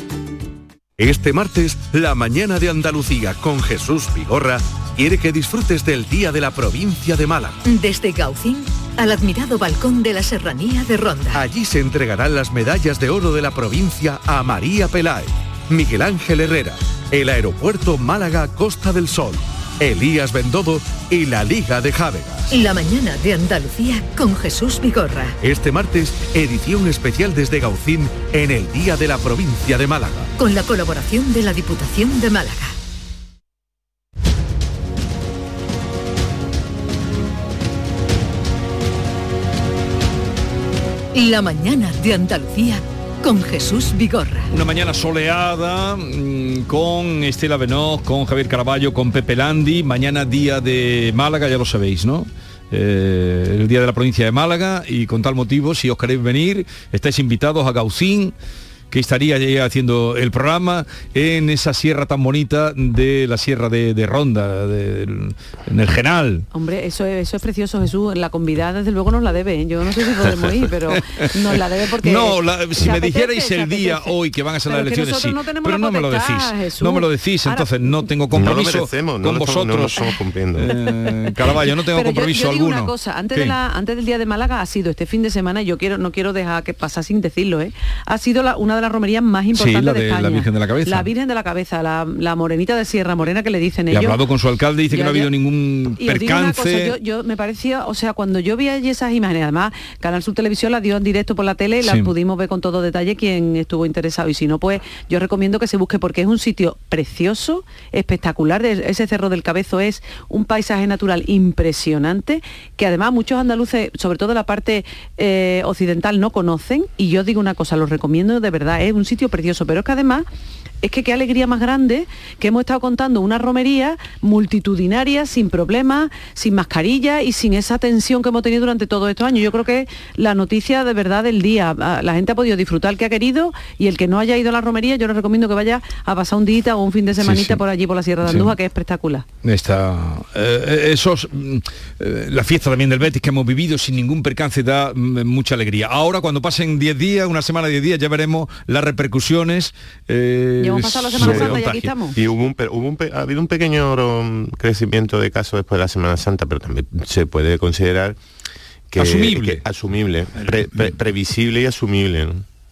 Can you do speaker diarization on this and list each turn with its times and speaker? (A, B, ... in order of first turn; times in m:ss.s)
0:01.0-0:07.6 A
0:07.6-0:11.4 B
0:11.3-0:22.5 A
0:22.5-0:25.4 B
0:25.4-0:30.3 A
0:30.4-0:32.7 B
0:41.1-0:44.5 B
0:44.5-0:58.3 C
0:58.9-1:06.4 C
1:06.5-1:14.2 D
1:10.9-1:23.6 C
1:14.7-1:18.1 D
1:18.3-1:20.8 E
1:21.9-1:34.2 D
1:29.5-1:31.1 C
1:33.9-1:36.9 C
1:34.9-1:35.3 D
1:36.0-2:00.3 D
1:41.8-1:42.1 C
2:00.8-2:19.2 D
2:17.2-2:17.6 C
2:18.2-2:18.6 C
2:19.4-2:31.9 C
2:30.6-2:32.2 D
2:31.2-2:31.6 E
2:32.2-2:38.2 E
2:38.9-2:42.4 E
2:39.0-2:39.6 C